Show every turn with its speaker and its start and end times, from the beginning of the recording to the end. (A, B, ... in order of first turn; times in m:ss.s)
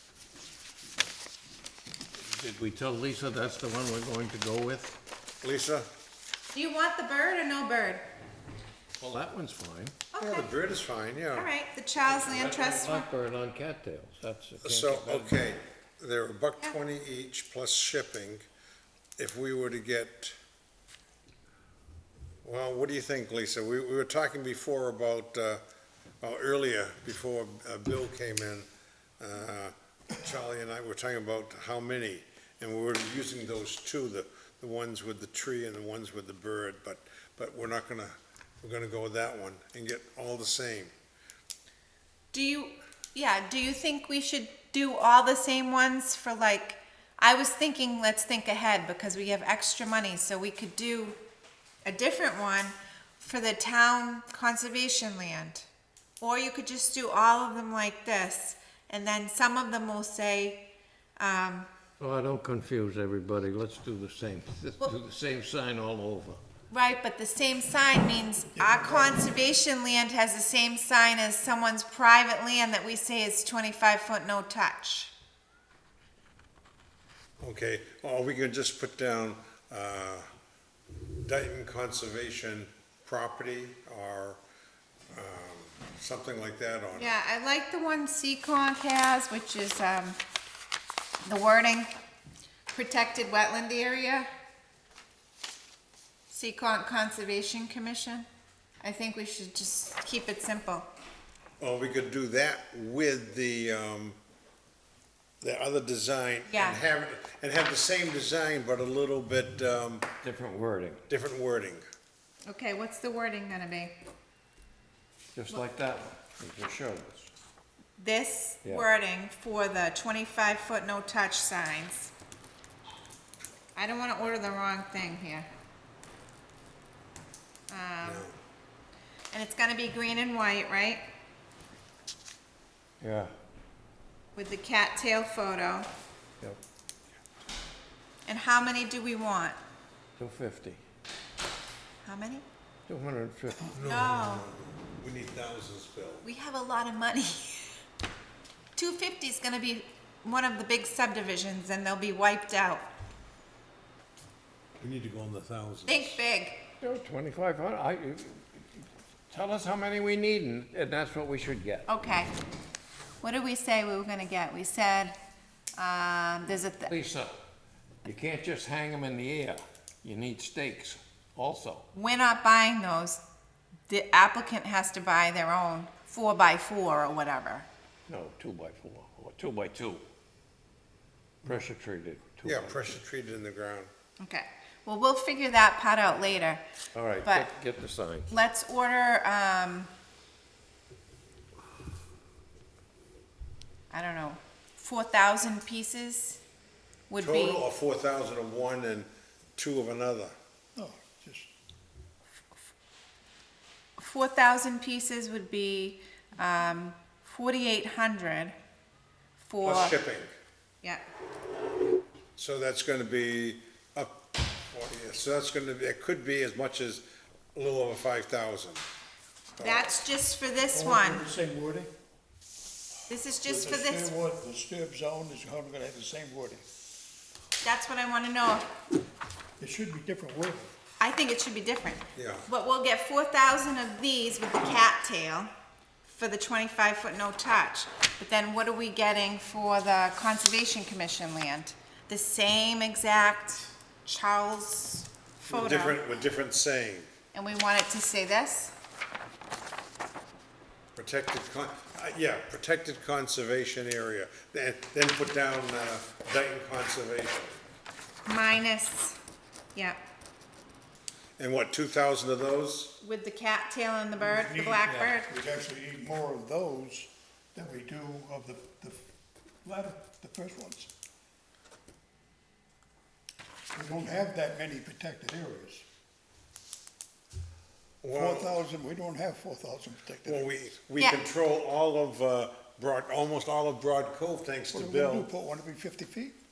0:02.3-0:05.0 A
0:05.4-0:05.9 B
0:06.5-0:08.1 C
0:09.0-0:10.0 A
0:10.1-0:10.5 C
0:10.2-0:11.5 B
0:11.4-0:13.1 C
0:12.0-0:15.4 A
0:14.6-0:18.4 B
0:19.2-0:20.4 B
0:22.4-0:25.6 B
0:26.2-0:28.7 B
0:29.2-0:40.9 B
0:42.3-0:51.2 C
0:51.8-0:55.7 C
0:56.2-1:00.6 C
1:01.2-1:01.7 C
1:02.0-1:06.4 A
1:06.7-1:15.1 C
1:08.6-1:09.2 D
1:17.4-1:20.3 B
1:21.2-1:24.4 B
1:25.1-1:27.2 B
1:26.9-1:30.2 C
1:31.2-1:31.9 C
1:32.7-1:34.3 C
1:36.3-1:38.3 C
1:38.8-1:40.9 C
1:41.6-1:44.2 B
1:45.4-1:50.1 B
1:46.5-1:46.8 C
1:50.2-1:51.0 A
1:51.1-1:51.8 B
1:52.5-1:54.0 C
1:55.4-1:57.3 A
1:58.0-2:02.1 C
2:03.8-2:05.5 C
2:07.7-2:08.2 C
2:08.0-2:08.4 B
2:09.3-2:11.1 C
2:13.0-2:13.3 A
2:14.4-2:15.9 C
2:18.3-2:19.6 C
2:20.2-2:20.8 A
2:22.0-2:22.4 C
2:22.9-2:23.8 A
2:23.7-2:26.3 B
2:23.8-2:24.5 C
2:26.2-2:27.7 C
2:28.8-2:32.9 C
2:34.8-2:36.2 B
2:35.9-2:36.6 C
2:36.8-2:41.9 A
2:41.9-2:42.3 C
2:43.2-2:45.2 C
2:45.8-2:46.9 C
2:46.9-2:47.4 A
2:48.0-2:51.9 A
2:51.9-2:53.2 C
2:53.9-2:57.7 C
2:58.1-3:00.1 A
3:01.4-3:03.0 A
3:02.4-3:03.9 B
3:04.2-3:06.6 C
3:07.0-3:08.4 A
3:07.2-3:07.5 C
3:08.3-3:09.9 C
3:13.9-3:16.4 C
3:17.1-3:17.6 C
3:17.2-3:20.3 B
3:20.8-3:21.5 D
3:24.0-3:28.6 C
3:29.4-3:30.0 C
3:29.6-3:30.3 B
3:32.4-3:34.1 B
3:34.7-3:38.8 B
3:39.6-3:40.0 B
3:39.6-3:41.3 C
3:40.7-3:41.9 D
3:43.1-3:44.1 C
3:43.4-3:46.6 D
3:47.6-3:48.7 C
3:49.6-3:50.7 D
3:51.0-3:55.5 C
3:52.2-3:52.5 B
3:56.0-4:06.0 C
4:05.5-4:07.1 B
4:07.3-4:08.8 C
4:11.0-4:17.6 B
4:18.3-4:19.2 C
4:21.4-4:23.0 B
4:23.0-4:25.3 C
4:24.2-4:29.1 D
4:24.8-4:25.1 A
4:29.6-4:30.9 D
4:33.7-4:35.8 D
4:38.0-4:38.6 B
4:38.2-4:40.4 D
4:40.2-4:45.3 B
4:44.7-4:46.4 D